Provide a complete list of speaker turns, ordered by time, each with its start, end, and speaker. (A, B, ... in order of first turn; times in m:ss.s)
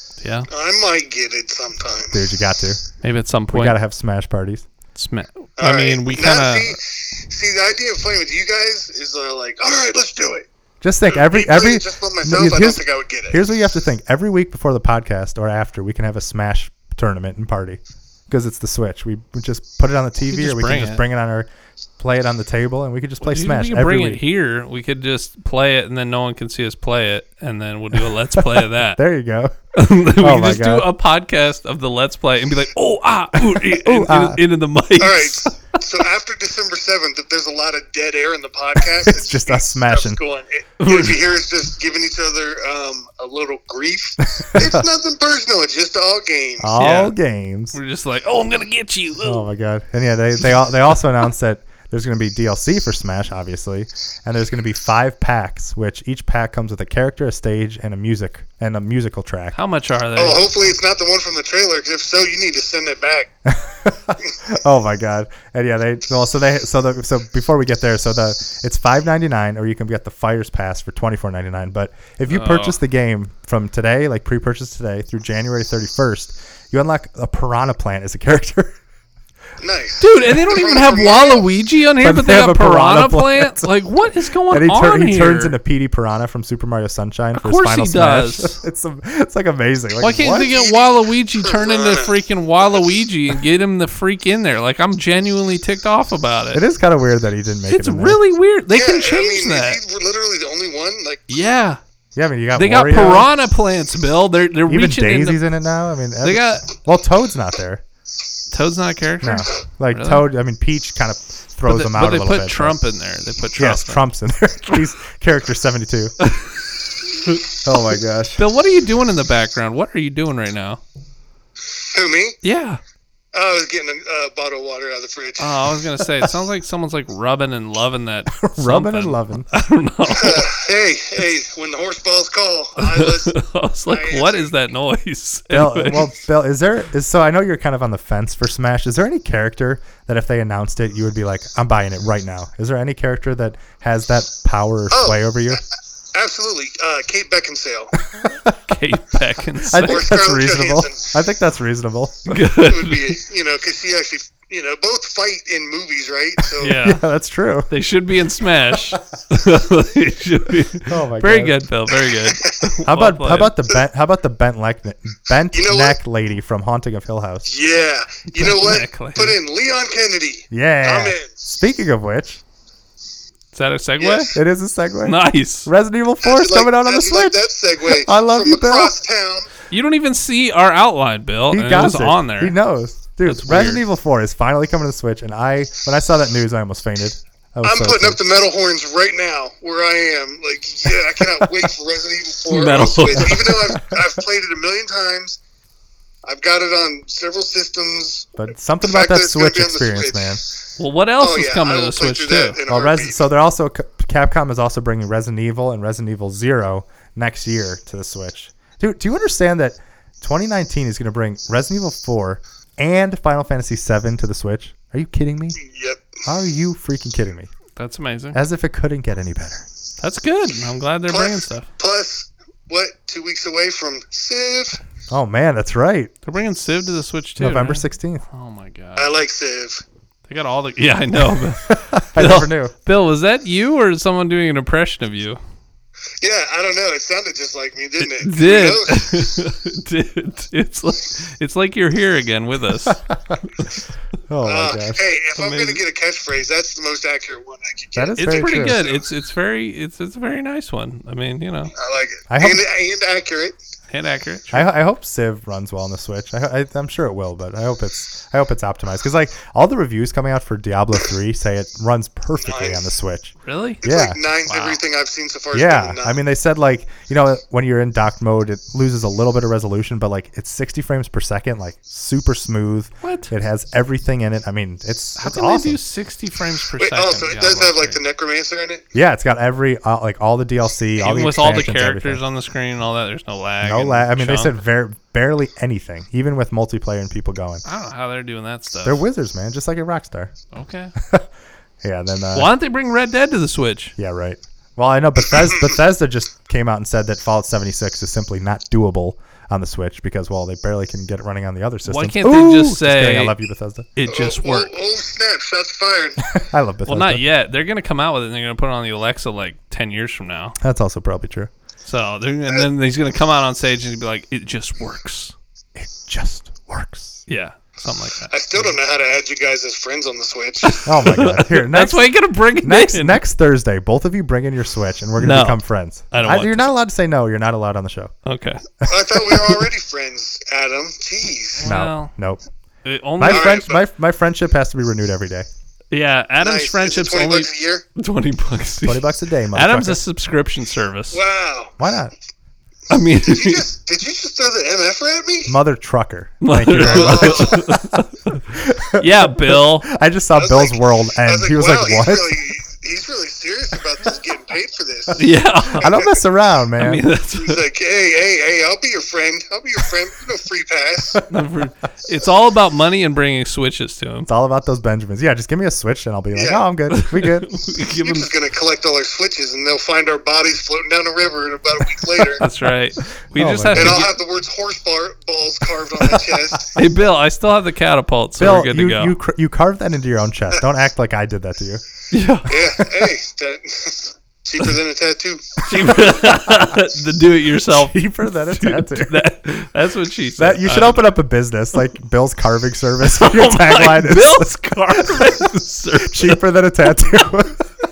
0:00.2-0:00.5 A
0:00.5-0:02.2 B
0:02.1-0:02.8 C
0:03.0-0:03.8 A
0:03.5-0:04.7 C
0:04.9-0:06.8 A
0:05.6-0:10.5 B
0:10.8-0:24.2 C
0:11.1-0:13.4 B
0:20.3-0:21.0 A
0:23.2-0:29.0 A
0:28.3-0:29.5 C
0:29.7-0:35.5 A
0:30.0-0:30.9 C
0:33.5-0:34.4 C
0:35.0-0:46.7 B
0:38.9-0:40.2 C
0:40.8-0:41.2 A
0:44.4-0:44.8 C
0:46.6-0:47.8 C
0:46.8-0:47.1 A
0:47.7-0:49.5 A
0:49.2-0:59.6 C
0:59.5-1:00.7 A
1:00.2-1:03.3 B
1:03.4-1:18.8 C
1:12.3-1:12.8 A
1:19.6-1:21.5 B
1:20.0-1:25.6 A
1:22.0-1:23.7 C
1:24.5-1:30.5 C
1:27.3-1:28.6 A
1:30.0-1:36.6 A
1:30.4-1:32.8 B
1:36.5-1:38.2 C
1:37.7-1:39.8 A
1:38.7-1:41.2 B
1:41.3-1:41.8 A
1:42.2-1:43.3 C
1:42.5-1:45.4 A
1:44.7-1:47.8 C
1:46.2-1:46.7 A
1:48.5-1:50.2 A
1:49.2-1:52.8 C
1:51.7-1:54.0 A
1:53.6-1:56.1 C
1:56.2-1:56.5 A
1:57.6-1:58.4 C
1:58.4-2:00.8 A
2:01.9-2:02.4 B
2:02.4-2:02.8 A
2:03.3-2:05.6 B
2:05.4-2:10.5 A
2:08.3-2:09.5 C
2:10.1-2:13.3 B
2:12.8-2:16.1 A
2:13.9-2:14.5 B
2:15.5-2:25.6 C
2:24.9-2:25.6 B
2:26.1-2:28.0 B
2:28.1-2:28.6 C
2:28.7-2:30.1 A
2:29.6-2:32.4 C
2:29.8-2:31.1 B
2:32.3-2:33.2 A
2:32.5-2:36.8 B
2:36.6-2:37.0 A
2:36.8-2:37.7 C
2:37.7-2:43.6 A
2:40.9-2:41.6 C
2:42.2-2:42.7 B
2:42.8-2:47.5 C
2:45.5-2:46.0 B
2:47.4-2:51.4 B
2:48.3-2:49.4 A
2:50.5-2:52.4 C
2:53.5-2:54.4 A
2:54.0-2:54.3 B
2:54.3-2:58.9 C
2:55.0-2:55.7 A
2:56.2-2:59.5 B
2:59.7-3:02.6 A
3:01.5-3:08.2 C
3:03.2-3:03.8 A
3:07.6-3:15.4 B
3:12.5-3:13.5 A
3:16.2-3:20.4 B
3:18.4-3:20.4 C
3:20.8-3:22.6 A
3:21.2-3:23.2 B
3:22.7-3:35.6 C
3:35.6-3:36.2 B
3:36.2-3:37.5 C
3:37.8-3:38.4 A
3:38.3-3:39.6 C
3:40.0-3:41.7 A
3:41.1-3:44.8 B
3:45.1-3:46.1 C
3:46.2-3:49.1 A
3:47.4-3:48.2 C
3:49.0-3:49.8 B
3:50.3-3:55.4 A
3:51.3-3:52.7 C
3:56.2-3:59.3 B
3:58.0-4:03.0 A
4:03.1-4:03.4 C
4:04.3-4:05.0 C
4:04.4-4:09.0 B
4:05.4-4:05.8 A
4:07.9-4:08.8 C
4:08.2-4:11.7 A
4:11.7-4:13.6 B
4:12.3-4:12.6 C
4:13.9-4:14.7 A
4:14.5-4:24.2 C
4:22.4-4:22.9 B
4:23.4-4:23.8 A
4:23.8-4:26.2 B
4:24.4-4:24.8 A
4:25.5-4:35.8 C
4:33.0-4:33.3 A
4:35.2-4:38.0 A
4:36.8-4:38.8 B
4:38.9-4:42.2 C
4:41.0-4:44.6 A
4:43.6-4:47.6 C
4:47.6-4:49.0 A
4:48.8-4:50.3 C
4:50.5-4:50.9 A
4:51.0-4:51.3 C
4:51.8-4:52.5 C
4:52.3-4:53.9 A
4:54.0-5:03.9 C
5:01.9-5:03.3 A
5:04.0-5:04.7 A
5:04.1-5:06.4 B
5:06.3-5:07.2 C
5:06.9-5:10.6 A
5:10.6-5:11.5 C
5:11.8-5:15.3 A
5:15.8-5:17.2 C
5:17.3-5:18.3 A
5:18.3-5:20.9 B
5:20.6-5:23.2 A
5:20.8-5:28.1 C
5:25.2-5:26.7 A
5:28.2-5:28.6 A
5:28.9-5:31.6 B
5:31.6-5:32.1 A
5:31.6-5:32.4 C
5:32.8-5:33.6 A
5:33.2-5:35.5 C
5:33.3-5:33.8 B
5:35.9-5:41.2 A
5:36.4-5:37.8 B
5:38.8-5:40.0 C
5:41.1-5:41.8 B
5:41.8-5:42.1 C
5:42.9-5:43.6 A
5:43.2-5:45.6 B
5:45.5-5:47.9 C
5:46.4-5:48.4 A
5:46.8-5:47.7 B
5:48.5-5:52.5 C
5:49.0-5:49.9 A
5:50.3-5:56.2 B
5:55.2-5:56.0 A
5:55.8-5:57.0 C
5:56.8-5:57.6 A
5:57.3-6:01.2 B
6:01.3-6:04.3 A
6:04.3-6:07.5 C
6:06.3-6:06.6 B
6:06.9-6:08.3 A
6:08.0-6:12.4 B
6:12.4-6:14.1 A
6:13.3-6:14.1 C
6:13.7-6:16.7 B
6:16.7-6:19.1 A
6:18.4-6:21.8 C
6:22.1-6:22.6 A
6:22.5-6:26.1 B
6:25.6-6:31.1 A
6:27.7-6:29.2 C
6:30.4-6:35.5 C
6:33.1-6:36.4 A
6:36.0-6:37.6 C